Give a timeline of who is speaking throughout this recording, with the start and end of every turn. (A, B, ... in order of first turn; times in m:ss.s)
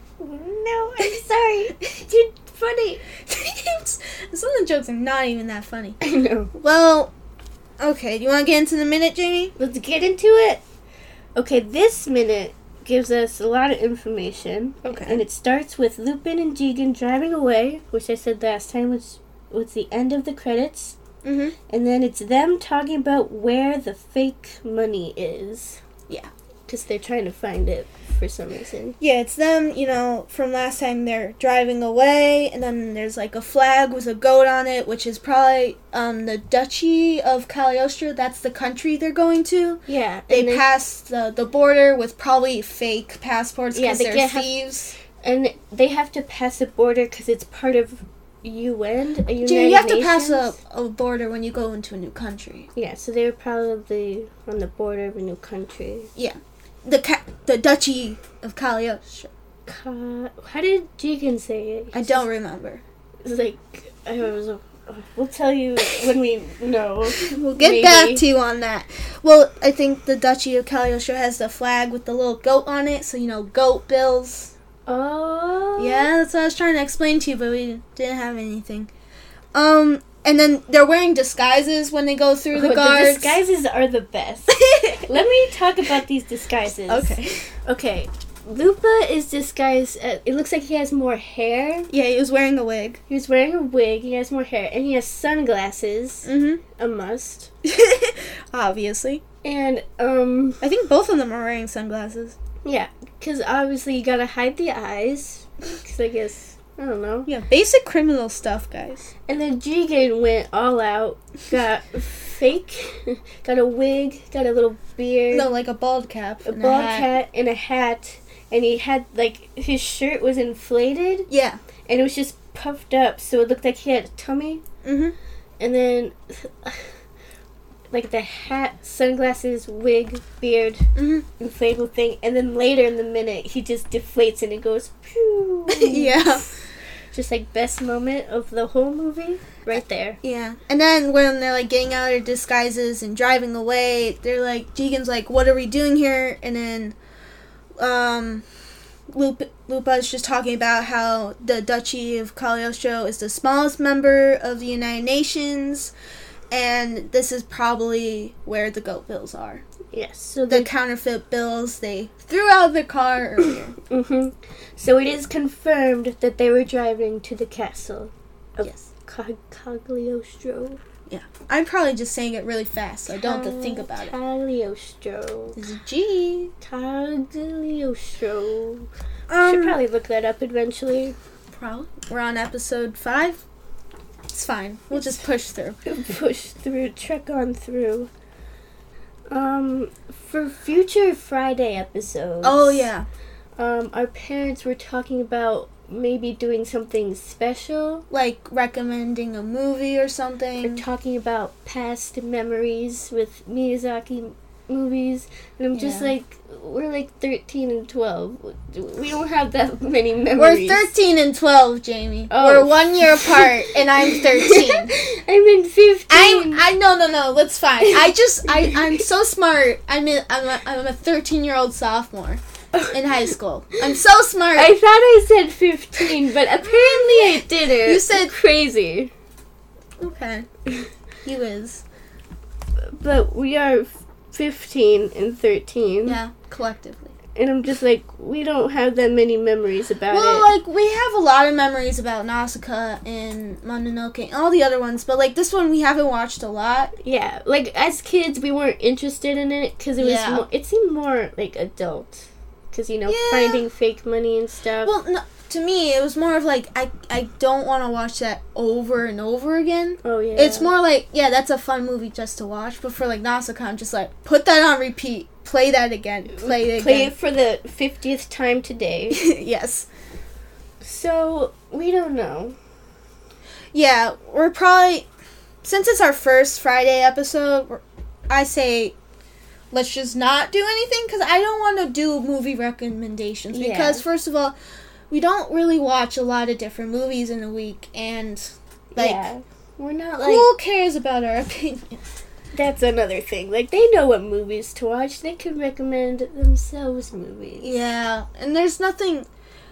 0:00.2-0:03.0 A
0:03.2-0:06.0 B
0:06.0-0:06.5 A
0:06.5-0:07.1 B
0:07.8-0:09.5 B
0:09.6-0:10.6 A
0:11.3-0:21.0 A
0:14.8-0:15.2 B
0:21.2-0:21.6 B
0:21.7-0:25.8 A
0:26.7-0:29.0 A
0:29.0-0:44.9 B
0:39.9-0:40.7 A
0:43.7-0:50.5 A
0:49.4-0:52.7 B
0:52.7-0:56.1 A
0:56.2-0:59.3 B
0:59.7-1:02.2 A
1:01.9-1:02.8 B
1:03.2-1:08.2 A
1:07.2-1:14.5 B
1:14.8-1:16.1 A
1:15.8-1:18.9 B
1:19.5-1:23.4 B
1:22.5-1:27.1 A
1:24.5-1:25.0 B
1:26.9-1:27.5 B
1:27.6-1:31.9 A
1:31.9-1:33.0 B
1:33.1-1:37.5 A
1:36.2-1:36.6 B
1:37.6-1:39.2 B
1:39.4-1:40.6 A
1:40.6-1:42.4 B
1:42.6-1:47.3 A
1:47.2-1:49.1 B
1:49.3-1:55.5 A
1:55.3-1:57.1 B
1:56.4-2:01.3 A
2:01.3-2:01.6 B
2:01.9-2:04.6 A
2:04.8-2:05.1 B
2:05.6-2:06.8 A
2:07.9-2:16.3 A
2:11.0-2:11.2 B
2:15.7-2:16.5 B
2:17.1-2:20.2 A
2:20.2-2:26.9 B
2:27.8-2:28.4 B
2:29.1-2:35.9 B
2:36.5-2:39.6 B
2:39.9-2:40.7 A
2:40.5-2:43.8 B
2:43.9-2:50.8 A
2:51.1-2:54.1 B
2:53.1-2:55.6 A
2:55.5-2:56.5 B
2:56.6-3:01.1 A
2:59.3-2:59.8 B
3:01.5-3:03.4 B
3:04.3-3:05.8 B
3:05.8-3:08.1 A
3:09.3-3:12.9 A
3:12.4-3:13.0 B
3:13.6-3:18.0 A
3:18.1-3:20.8 B
3:20.6-3:30.9 A
3:25.7-3:26.1 B
3:30.3-3:34.9 B
3:32.3-3:36.7 A
3:36.1-3:44.7 B
3:38.5-3:39.0 A
3:44.5-3:49.1 A
3:46.6-3:48.3 B
3:50.0-3:50.4 B
3:51.2-3:51.8 B
3:52.9-3:56.2 A
3:56.0-3:57.1 B
3:57.4-4:00.5 A
4:00.1-4:06.9 B
4:07.0-4:14.9 A
4:10.0-4:10.4 B
4:13.1-4:13.6 B
4:14.8-4:27.1 B
4:20.0-4:20.7 A
4:26.4-4:29.2 A
4:29.1-4:29.9 B
4:30.8-4:32.6 A
4:33.7-4:35.1 B
4:35.6-4:38.9 B
4:39.7-4:44.6 B
4:43.5-4:44.0 A
4:45.1-4:49.2 B
4:48.9-4:50.5 A
4:50.2-4:52.0 B
4:52.5-4:57.8 A
4:57.6-4:59.3 B